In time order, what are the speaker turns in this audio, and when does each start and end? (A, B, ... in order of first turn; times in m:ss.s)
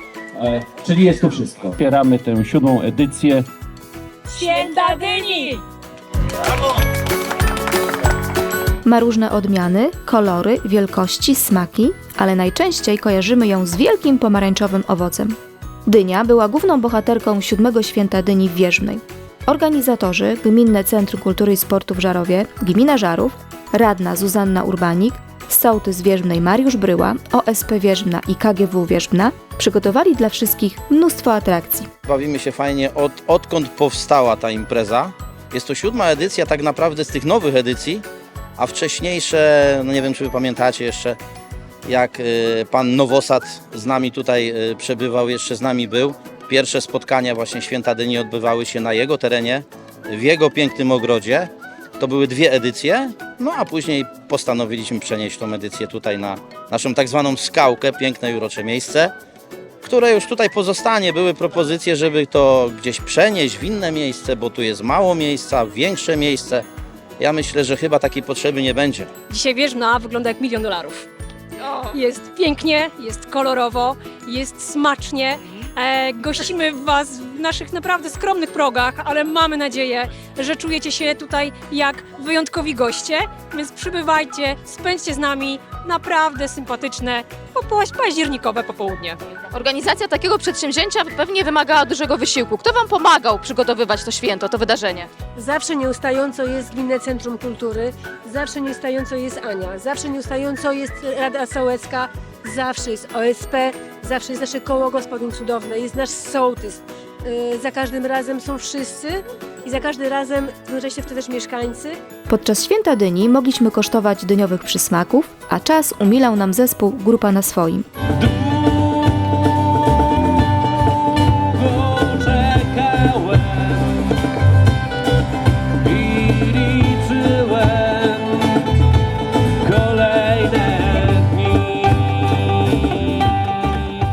0:00.3-0:03.5 A
0:04.3-0:05.6 B
0:08.8-0:31.9 C
0:32.1-0:38.0 D
0:38.6-0:41.2 D
0:41.8-0:59.1 D
0:59.8-1:06.6 D
1:07.2-1:09.1 D
1:09.3-1:11.0 B
1:11.9-1:29.2 B
1:29.5-1:35.1 E
1:35.4-1:52.0 F
1:52.3-1:57.9 C
2:01.7-2:03.7 A
2:05.9-2:08.4 A
2:09.6-2:11.8 A